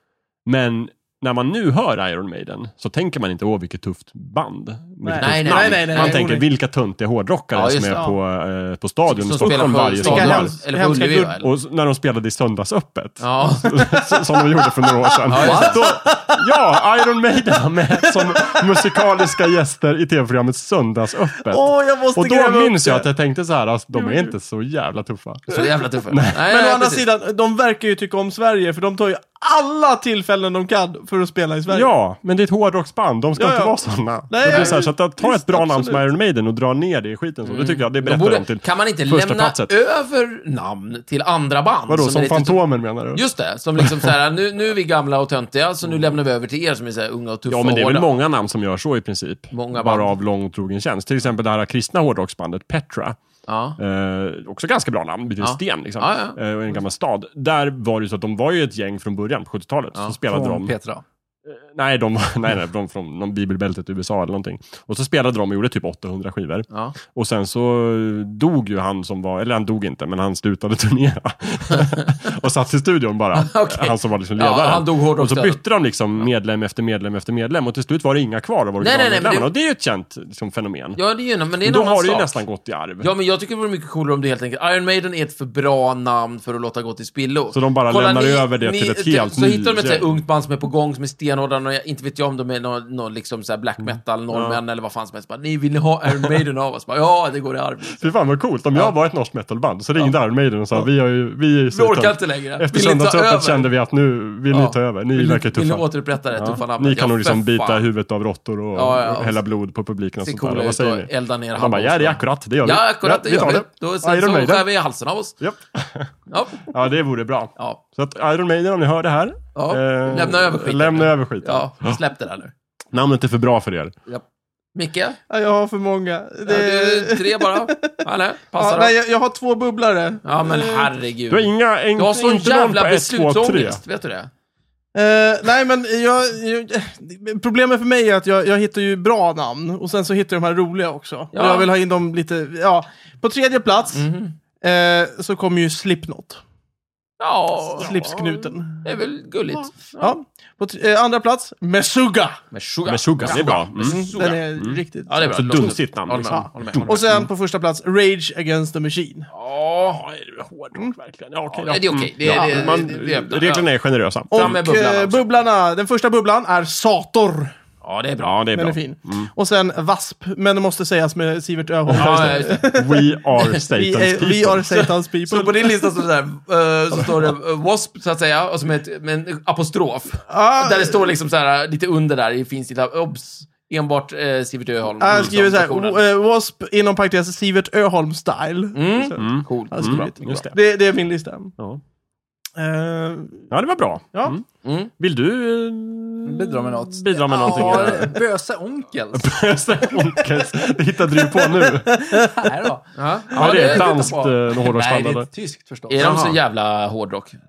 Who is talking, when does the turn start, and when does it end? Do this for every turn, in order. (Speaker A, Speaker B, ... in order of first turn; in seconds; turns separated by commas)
Speaker A: 0.5-10.6, Speaker B: 5.0-6.5, Speaker C: 5.2-6.2, Speaker C: 7.5-8.1, Speaker C: 9.1-11.5, Speaker B: 9.4-11.4, Speaker A: 11.4-26.4, Speaker C: 13.2-13.8, Speaker B: 13.7-16.6, Speaker C: 15.3-15.8, Speaker B: 18.0-19.3, Speaker B: 21.5-23.1, Speaker B: 23.9-24.3, Speaker C: 25.5-27.1, Speaker B: 26.5-31.9, Speaker A: 31.7-39.7, Speaker B: 33.4-36.0, Speaker C: 34.4-34.8, Speaker C: 37.5-42.6, Speaker A: 41.9-43.2, Speaker C: 43.1-48.1, Speaker A: 43.8-44.1, Speaker A: 47.5-53.2, Speaker C: 49.5-50.1, Speaker C: 53.5-53.8, Speaker A: 53.8-60.7, Speaker C: 55.4-56.4, Speaker D: 60.3-61.0, Speaker A: 61.5-81.0, Speaker C: 66.7-67.0, Speaker C: 73.3-75.6, Speaker C: 78.8-79.5, Speaker C: 81.0-82.4, Speaker A: 81.6-83.1, Speaker C: 83.0-98.1, Speaker A: 87.5-90.1, Speaker A: 93.8-94.6, Speaker A: 98.0-114.7, Speaker C: 101.7-103.7, Speaker C: 104.5-107.9, Speaker C: 108.7-109.4, Speaker C: 110.2-115.3, Speaker A: 115.4-122.0, Speaker C: 116.3-116.7, Speaker C: 119.5-122.5, Speaker A: 122.9-123.9, Speaker C: 124.8-125.2, Speaker B: 125.3-128.0, Speaker C: 126.5-128.9, Speaker B: 128.6-130.9, Speaker C: 130.2-134.3, Speaker A: 131.3-133.8, Speaker B: 134.9-144.1, Speaker C: 141.3-141.7, Speaker C: 143.9-144.4, Speaker B: 144.6-146.4, Speaker C: 147.2-150.2, Speaker B: 147.7-148.9, Speaker B: 150.0-152.4, Speaker C: 152.5-154.4, Speaker A: 152.9-157.3, Speaker B: 153.2-159.3, Speaker C: 155.1-157.1, Speaker C: 159.3-160.1, Speaker A: 159.9-164.6, Speaker C: 161.5-163.7, Speaker B: 162.3-162.8, Speaker B: 164.3-167.6, Speaker C: 164.3-165.2, Speaker C: 167.8-168.4, Speaker A: 168.2-169.3, Speaker B: 168.5-175.7, Speaker A: 171.9-174.9, Speaker C: 172.0-172.8, Speaker C: 174.7-186.0, Speaker B: 180.3-181.1, Speaker B: 185.0-191.5, Speaker C: 188.7-190.1, Speaker A: 189.2-190.6, Speaker B: 192.6-193.5, Speaker A: 193.5-194.4, Speaker C: 194.6-194.9, Speaker A: 195.0-198.2, Speaker D: 196.2-199.4, Speaker A: 199.1-202.0, Speaker B: 201.1-202.5, Speaker D: 202.1-206.2, Speaker C: 202.9-204.1, Speaker A: 203.3-205.3, Speaker C: 205.9-207.4, Speaker A: 206.0-206.4